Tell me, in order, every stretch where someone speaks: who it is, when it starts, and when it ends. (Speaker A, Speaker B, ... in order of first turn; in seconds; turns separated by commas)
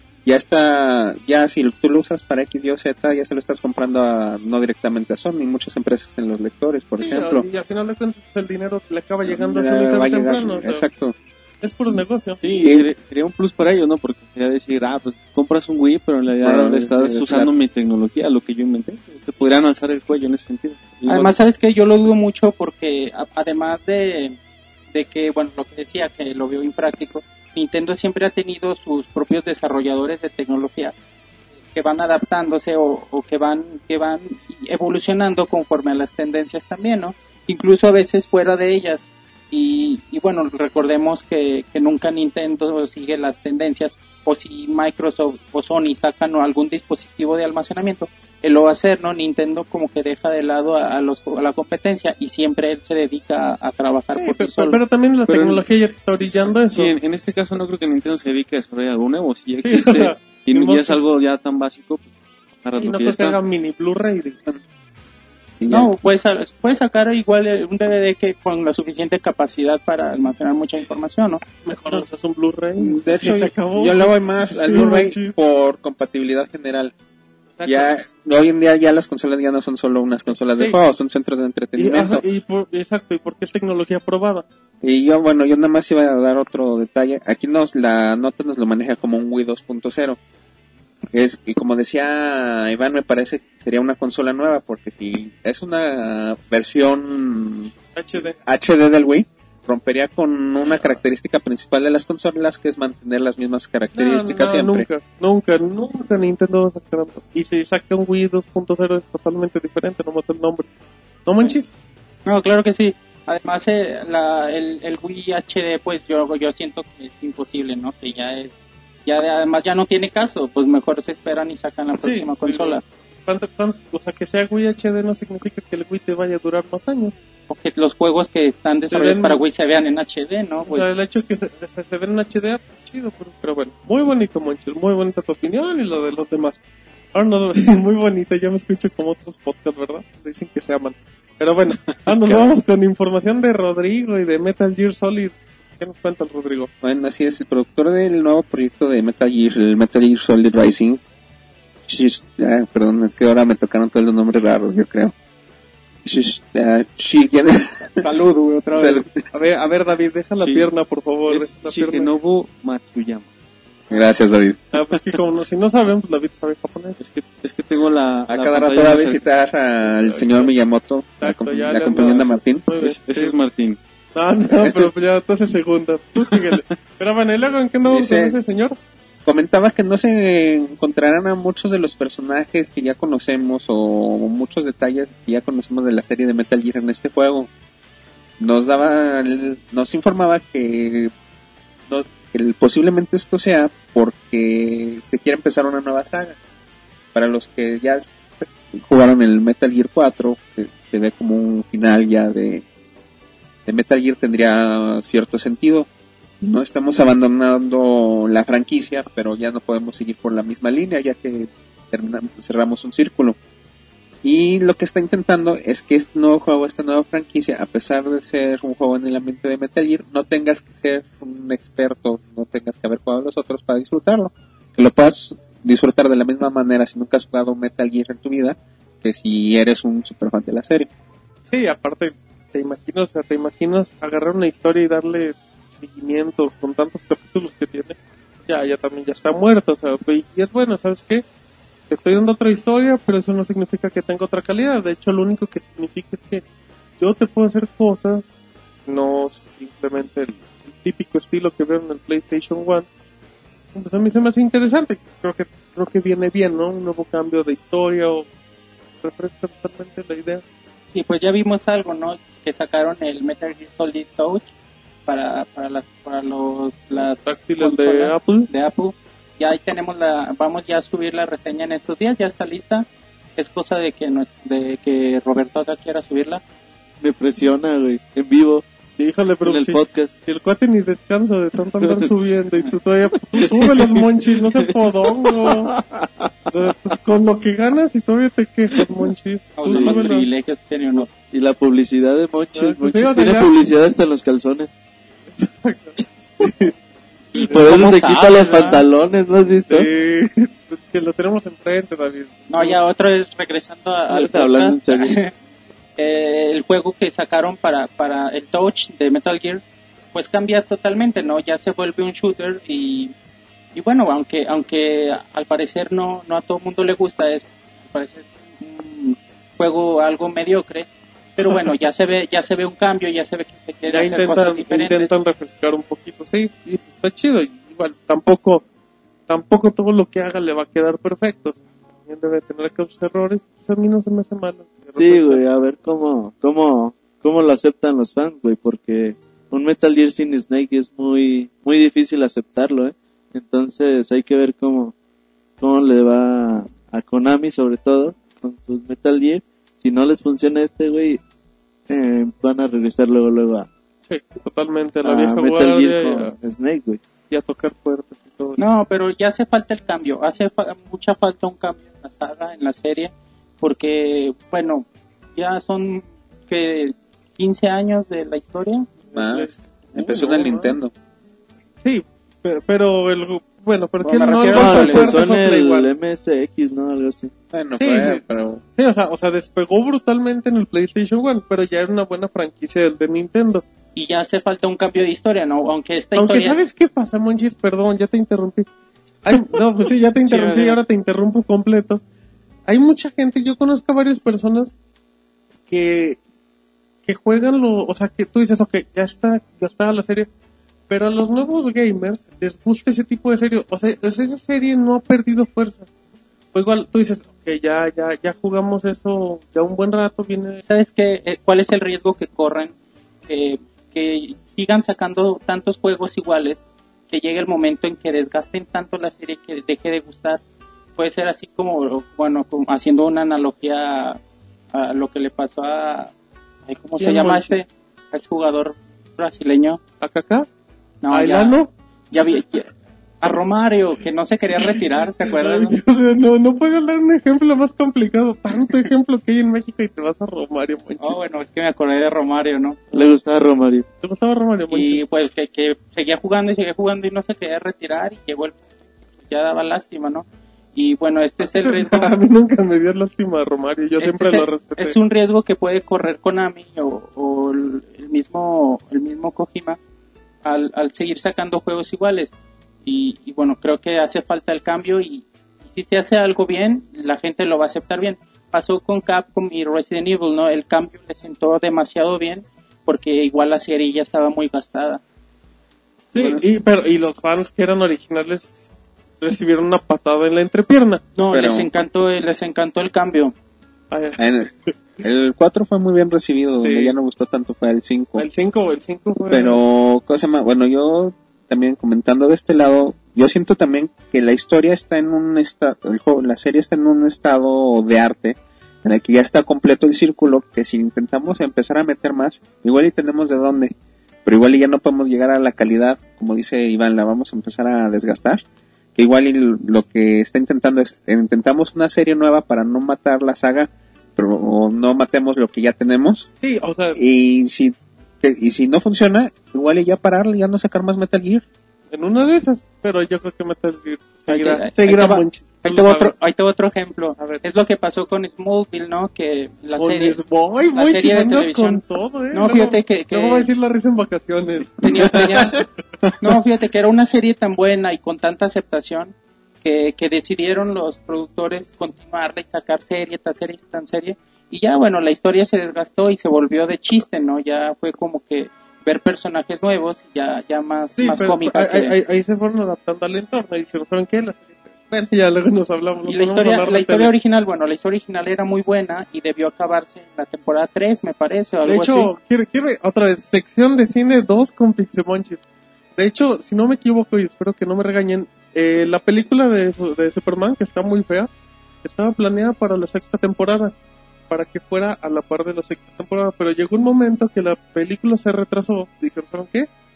Speaker A: 0.2-7.5, Speaker B: 7.0-10.9, Speaker A: 9.2-11.1, Speaker B: 11.6-12.5, Speaker C: 12.4-21.3, Speaker A: 16.4-17.5, Speaker D: 21.1-24.4, Speaker D: 24.9-30.9, Speaker D: 31.7-54.8, Speaker B: 54.1-56.9, Speaker C: 55.3-55.6, Speaker C: 56.2-62.0, Speaker B: 59.6-61.0, Speaker C: 62.6-63.4, Speaker B: 62.7-64.4, Speaker A: 65.6-65.9, Speaker D: 65.7-71.4, Speaker B: 71.6-75.3, Speaker A: 72.8-76.9, Speaker B: 77.6-77.9, Speaker A: 77.6-82.2, Speaker B: 81.8-84.5, Speaker A: 84.8-90.2, Speaker A: 91.1-97.7, Speaker B: 98.0-98.4, Speaker A: 98.4-104.9, Speaker B: 103.9-110.7, Speaker B: 111.2-111.7, Speaker D: 112.2-118.5, Speaker D: 119.0-122.8, Speaker B: 122.0-127.1, Speaker D: 127.5-130.8, Speaker B: 128.9-129.4, Speaker B: 130.6-136.6, Speaker B: 137.1-146.7, Speaker C: 141.9-142.4, Speaker A: 146.8-151.0, Speaker A: 151.9-155.1, Speaker A: 156.0-158.0, Speaker D: 158.0-159.1, Speaker A: 158.7-159.2, Speaker B: 159.3-162.1, Speaker C: 160.4-160.7, Speaker C: 161.3-163.3, Speaker A: 163.9-164.6, Speaker B: 164.7-167.0, Speaker C: 167.0-169.2, Speaker A: 168.3-172.7, Speaker B: 169.9-170.5, Speaker B: 171.2-173.4, Speaker C: 172.8-173.8, Speaker B: 174.1-178.8, Speaker C: 176.3-176.6, Speaker A: 177.8-178.3, Speaker A: 179.2-187.5, Speaker A: 188.4-191.1, Speaker A: 191.9-196.4, Speaker A: 197.1-202.6, Speaker A: 203.7-205.9, Speaker A: 206.4-213.4, Speaker A: 214.2-230.9, Speaker B: 231.5-241.2, Speaker B: 241.9-246.4, Speaker B: 247.0-248.3, Speaker B: 248.9-252.9, Speaker B: 253.7-258.3, Speaker B: 259.0-260.4, Speaker D: 260.9-264.5, Speaker D: 265.1-276.4, Speaker B: 266.9-268.5, Speaker E: 277.0-278.6, Speaker B: 279.0-285.7, Speaker E: 279.4-280.1, Speaker E: 281.8-282.1, Speaker E: 283.3-284.1, Speaker E: 284.6-286.9, Speaker B: 286.5-290.3, Speaker D: 289.6-291.1, Speaker E: 289.6-290.0, Speaker E: 291.3-294.7, Speaker B: 292.5-293.5, Speaker B: 295.4-296.7, Speaker B: 297.3-297.7, Speaker D: 297.3-298.8, Speaker E: 297.5-299.9, Speaker B: 299.7-302.8, Speaker D: 302.5-305.3, Speaker E: 304.1-305.1, Speaker D: 306.0-309.6, Speaker D: 310.1-313.1, Speaker D: 313.7-325.1, Speaker B: 323.9-328.6, Speaker B: 329.3-335.4, Speaker E: 335.0-344.9, Speaker E: 345.6-351.2, Speaker E: 351.9-353.7, Speaker B: 354.1-356.3, Speaker E: 355.0-357.0, Speaker B: 357.3-358.7, Speaker D: 358.6-368.9, Speaker B: 369.1-370.8, Speaker A: 369.1-370.9, Speaker B: 371.8-375.9, Speaker D: 374.0-375.2, Speaker E: 374.5-377.3, Speaker A: 377.5-378.6, Speaker B: 377.8-383.6, Speaker D: 383.9-386.6, Speaker B: 386.1-388.7, Speaker B: 389.2-392.0, Speaker D: 390.2-390.8, Speaker B: 392.7-394.7, Speaker B: 395.7-396.2, Speaker B: 397.1-400.3, Speaker B: 400.9-405.9, Speaker B: 406.5-410.6, Speaker D: 410.7-412.7, Speaker D: 413.2-420.4, Speaker D: 421.0-424.2, Speaker D: 424.7-426.1, Speaker D: 426.7-429.8, Speaker B: 427.0-427.6, Speaker B: 430.0-430.5, Speaker D: 431.0-431.6, Speaker B: 431.1-431.7, Speaker D: 432.1-435.8, Speaker B: 435.4-441.2, Speaker D: 441.0-442.8, Speaker E: 442.9-443.9, Speaker B: 444.0-445.0, Speaker D: 444.7-448.6, Speaker D: 449.3-452.1, Speaker B: 451.4-455.0, Speaker D: 454.0-459.8, Speaker D: 460.4-475.0, Speaker B: 476.1-478.5, Speaker A: 476.1-476.4, Speaker B: 479.2-481.0, Speaker D: 481.1-483.3, Speaker A: 481.3-481.7, Speaker B: 483.9-484.2, Speaker A: 484.2-488.3, Speaker B: 486.6-486.9, Speaker B: 488.2-489.6, Speaker A: 489.3-503.7, Speaker A: 504.2-508.4, Speaker A: 508.9-516.3, Speaker B: 516.4-517.0, Speaker A: 516.9-521.4, Speaker B: 521.9-526.1, Speaker D: 524.3-530.2, Speaker B: 527.2-527.4, Speaker B: 529.8-536.1, Speaker D: 530.7-533.5, Speaker D: 534.8-535.6, Speaker D: 536.2-551.9, Speaker B: 551.0-557.1, Speaker D: 556.0-562.1, Speaker B: 561.6-565.4, Speaker B: 566.0-571.3, Speaker B: 571.8-573.7, Speaker B: 574.3-579.7